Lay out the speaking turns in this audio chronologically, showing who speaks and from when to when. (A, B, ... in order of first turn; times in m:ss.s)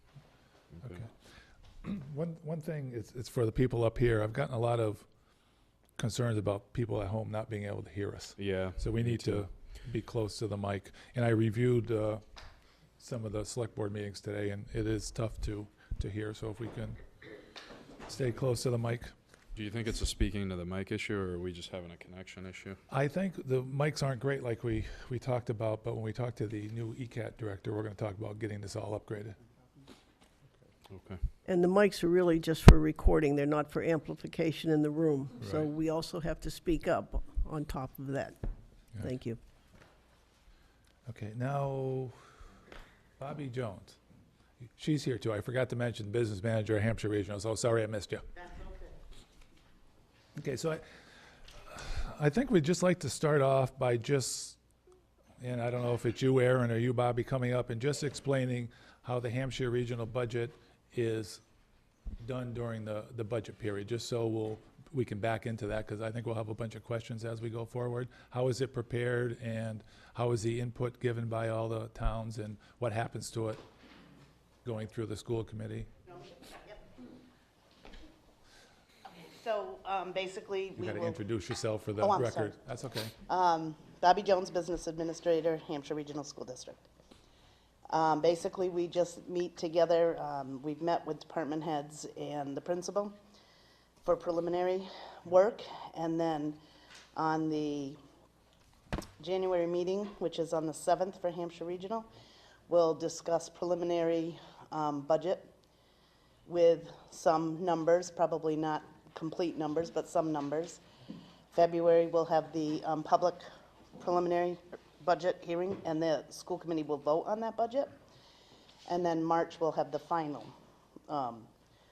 0:00.7-0:01.0 A
0:01.8-0:05.0 B
0:06.0-0:12.2 B
0:08.4-0:09.4 A
0:13.0-0:17.0 B
0:18.1-0:19.1 B
0:19.5-0:22.8 A
0:22.9-0:29.4 B
0:30.9-0:31.2 A
0:31.4-0:38.4 C
0:35.4-0:35.7 B
0:39.0-0:39.4 C
0:41.1-0:42.1 B
0:43.2-0:44.0 B
0:44.8-0:48.2 B
0:50.4-0:50.8 B
0:51.7-0:54.6 B
0:55.4-1:01.4 B
1:02.2-1:13.6 B
1:14.6-1:15.9 B
1:16.1-1:16.8 D
1:19.1-1:21.2 D
1:20.8-1:23.1 B
1:22.0-1:22.6 D
1:23.3-1:26.9 D
1:27.9-1:33.2 D
1:34.0-1:36.6 D
1:37.2-1:38.0 D
1:39.2-1:42.1 D
1:42.7-1:45.5 D
1:46.5-1:50.8 D
1:51.5-1:53.4 D
1:54.0-1:57.9 D
1:58.9-2:00.5 D
2:01.1-2:01.5 D